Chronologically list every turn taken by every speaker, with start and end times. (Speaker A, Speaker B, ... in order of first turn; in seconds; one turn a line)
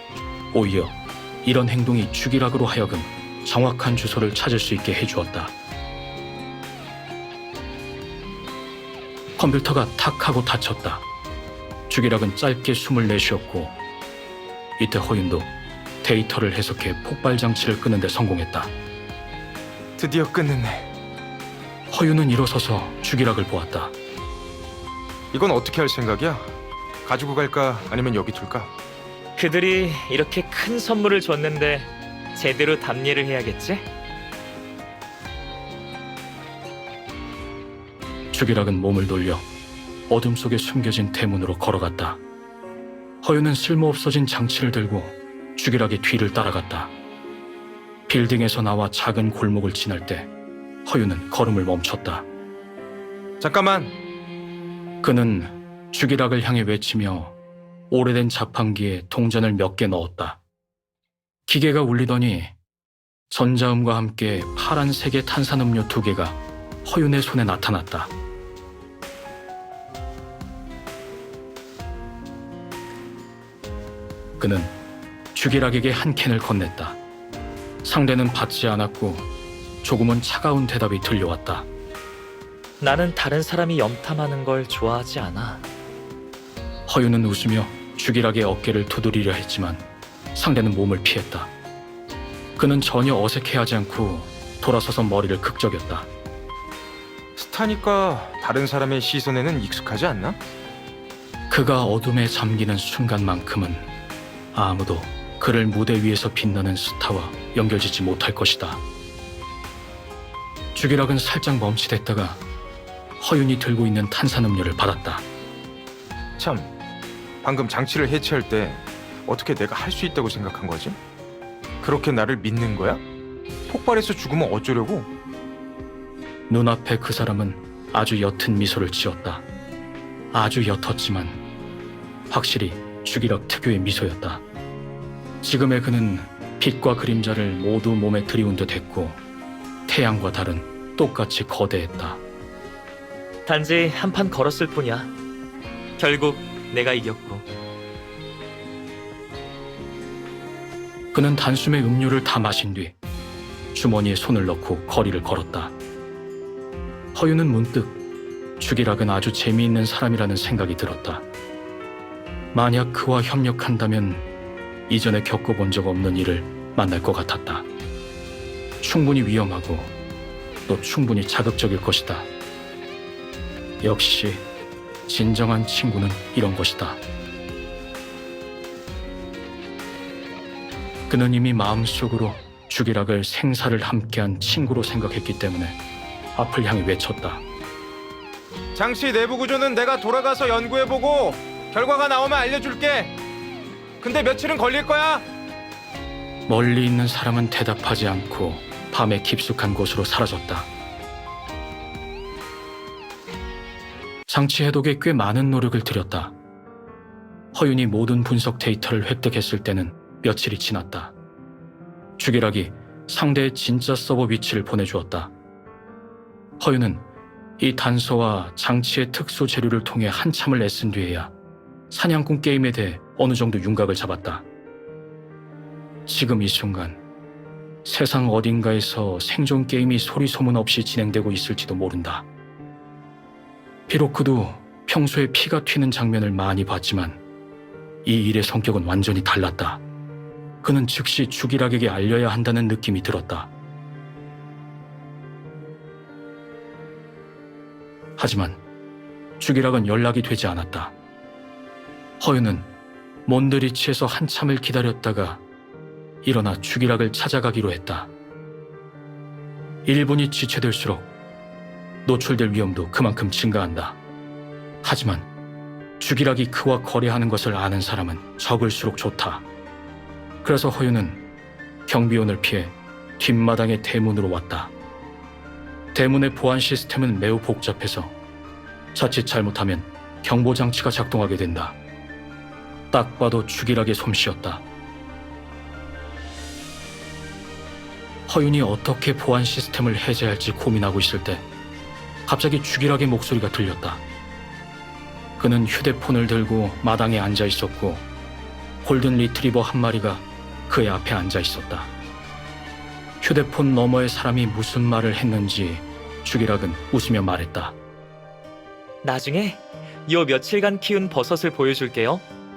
Speaker A: 0.5-5.5
Speaker A: 9.4-11.0
Speaker A: 11.9-13.8
Speaker A: 14.8-15.5
Speaker A: 16.0-18.7
Speaker B: 20.0-20.9
Speaker A: 21.9-23.9
Speaker B: 25.3-28.7
Speaker C: 29.4-33.9
Speaker A: 38.3-39.5
Speaker A: 40.1-42.2
Speaker A: 43.2-46.9
Speaker A: 48.1-50.3
Speaker A: 50.8-52.2
Speaker B: 53.4-53.9
Speaker A: 55.0-57.3
Speaker A: 57.9-60.4
Speaker A: 61.5-62.5
Speaker A: 63.3-68.1
Speaker A: 74.4-74.7
Speaker A: 75.3-77.0
Speaker A: 77.8-79.2
Speaker A: 79.8-81.7
Speaker C: 82.8-85.6
Speaker A: 86.9-89.8
Speaker A: 90.3-91.5
Speaker A: 92.5-96.1
Speaker B: 97.3-100.4
Speaker A: 101.5-103.9
Speaker A: 104.5-108.8
Speaker A: 110.7-112.4
Speaker A: 113.2-115.2
Speaker B: 116.4-116.7
Speaker B: 117.4-121.0
Speaker B: 121.8-123.0
Speaker B: 123.7-125.1
Speaker A: 126.5-129.4
Speaker A: 130.3-131.4
Speaker A: 132.3-134.4
Speaker A: 135.4-139.2
Speaker A: 139.9-142.2
Speaker C: 143.4-145.1
Speaker C: 146.0-147.4
Speaker A: 151.1-152.9
Speaker A: 153.7-155.7
Speaker A: 157.1-158.0
Speaker A: 158.6-161.2
Speaker A: 162.5-164.2
Speaker A: 164.9-167.7
Speaker A: 168.8-169.9
Speaker A: 170.7-172.3
Speaker A: 173.8-174.4
Speaker A: 175.1-177.0
Speaker A: 181.1-185.8
Speaker A: 186.3-187.4
Speaker B: 188.7-193.1
Speaker B: 194.0-195.2
Speaker A: 196.5-200.7
Speaker A: 204.3-206.3
Speaker A: 207.5-211.1
Speaker A: 212.2-215.3
Speaker A: 216.6-217.0
Speaker A: 217.6-221.3
Speaker A: 221.9-224.4
Speaker A: 226.1-227.0
Speaker A: 227.8-232.2
Speaker A: 233.9-237.2
Speaker A: 238.0-239.8
Speaker A: 240.6-243.5
Speaker A: 248.2-248.6
Speaker A: 249.4-250.9
Speaker A: 252.2-252.7
Speaker A: 253.2-255.4
Speaker A: 256.2-258.1
Speaker A: 259.9-261.1
Speaker A: 262.0-264.0
Speaker A: 264.8-265.3
Speaker A: 266.0-269.4
Speaker A: 270.4-271.2
Speaker A: 271.9-274.7
Speaker A: 275.9-278.1
Speaker A: 278.9-281.8
Speaker A: 282.9-284.6
Speaker A: 288.3-291.4
Speaker A: 292.2-294.0
Speaker A: 295.4-298.0
Speaker A: 298.8-301.9
Speaker A: 303.2-307.8
Speaker C: 309.0-312.2